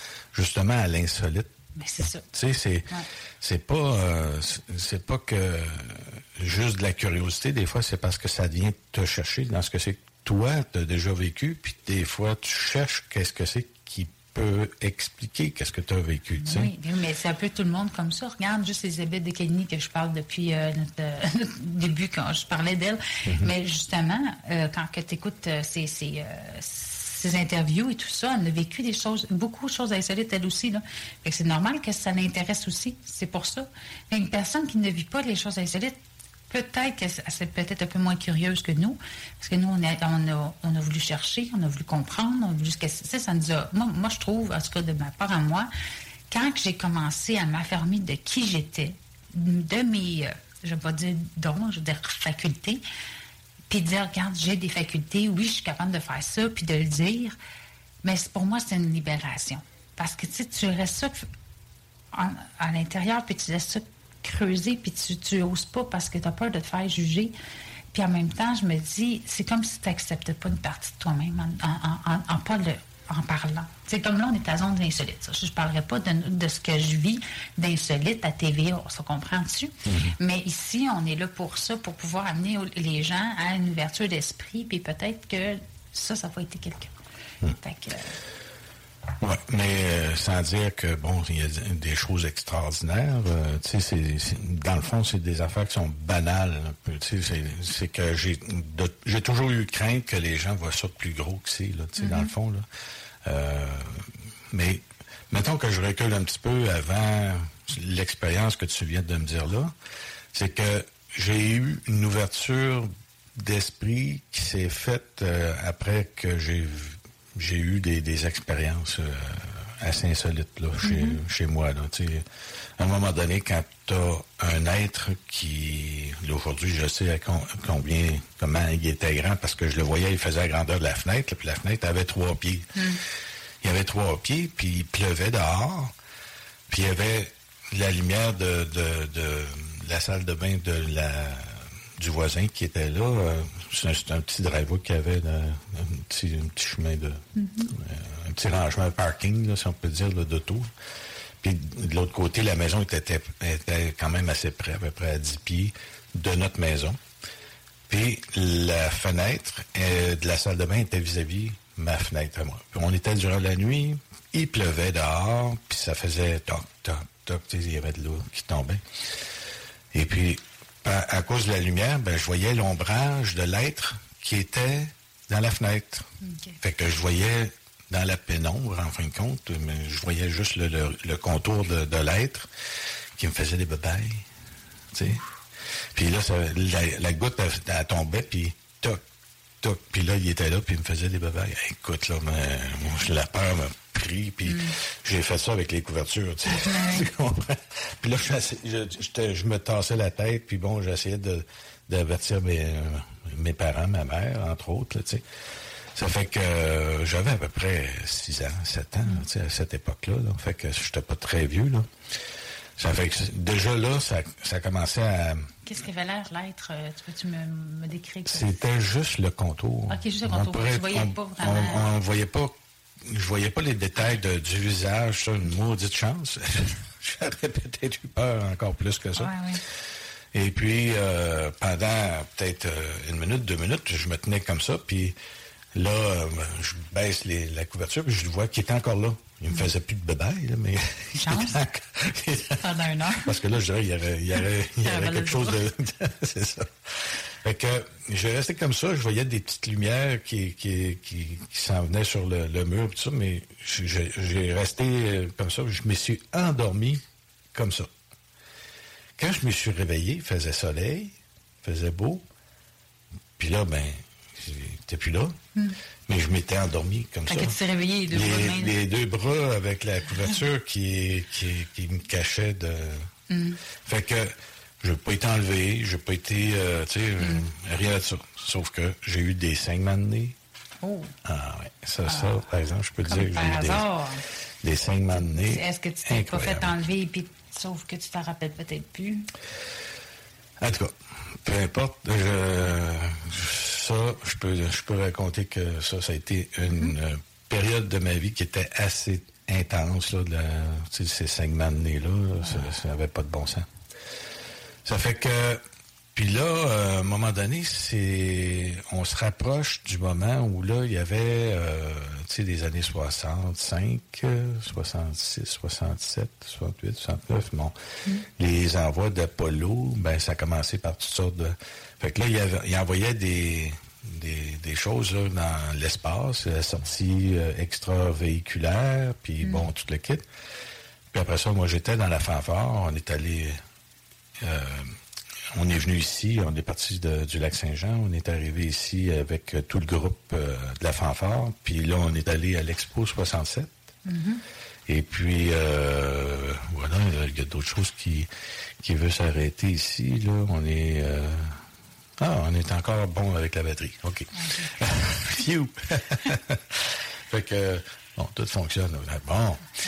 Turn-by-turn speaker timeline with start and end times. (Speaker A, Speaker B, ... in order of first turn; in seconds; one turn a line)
Speaker A: 0.3-1.5
Speaker B: 1.8-2.3
Speaker A: 2.3-16.7
Speaker B: 16.4-36.0
Speaker B: 36.5-45.7
Speaker B: 46.3-52.8
Speaker B: 53.7-57.4
Speaker B: 58.0-61.3
Speaker B: 62.1-67.3
Speaker B: 67.9-86.9
Speaker A: 79.8-80.1
Speaker B: 87.6-88.2
Speaker A: 89.2-102.7
Speaker B: 102.0-102.3
Speaker A: 103.2-109.7
Speaker A: 110.3-122.2
Speaker B: 120.8-121.2
Speaker A: 122.8-132.8
Speaker B: 132.7-133.0
Speaker A: 133.6-135.9
Speaker A: 136.7-150.7
Speaker B: 147.3-147.7
Speaker A: 151.4-157.0
Speaker A: 157.9-168.8
Speaker A: 169.9-176.1
Speaker B: 176.2-176.6
Speaker A: 176.6-182.5
Speaker A: 183.2-184.2
Speaker A: 184.9-185.2
Speaker A: 185.9-189.0
Speaker A: 189.6-205.2
Speaker B: 194.4-194.7
Speaker B: 196.5-197.1
Speaker A: 205.9-211.9
Speaker A: 212.8-215.5
Speaker B: 215.7-218.6
Speaker A: 218.3-229.3
Speaker B: 219.9-221.8
Speaker B: 229.2-229.6
Speaker A: 230.3-235.2
Speaker A: 235.7-242.6
Speaker B: 241.2-241.6
Speaker B: 242.6-243.3
Speaker A: 243.2-257.0
Speaker B: 244.8-245.6
Speaker A: 257.5-257.9
Speaker A: 259.2-262.2
Speaker A: 263.4-265.4
Speaker A: 266.1-267.6
Speaker B: 267.3-268.8
Speaker A: 268.1-273.1
Speaker B: 273.3-273.6
Speaker A: 273.8-280.3
Speaker B: 280.8-281.1
Speaker A: 281.2-283.9
Speaker B: 282.1-282.4
Speaker B: 283.0-284.2
Speaker A: 284.6-286.7
Speaker B: 285.1-289.3
Speaker A: 290.6-303.7
Speaker B: 296.7-296.9
Speaker B: 302.4-302.7
Speaker A: 304.8-305.6
Speaker A: 306.1-317.7
Speaker A: 318.4-330.2
Speaker B: 329.4-329.7
Speaker A: 331.1-333.6
Speaker A: 334.4-334.9
Speaker A: 335.5-343.7
Speaker B: 344.1-344.4
Speaker A: 344.9-348.3
Speaker A: 348.8-351.6
Speaker A: 352.2-359.6
Speaker B: 354.3-354.7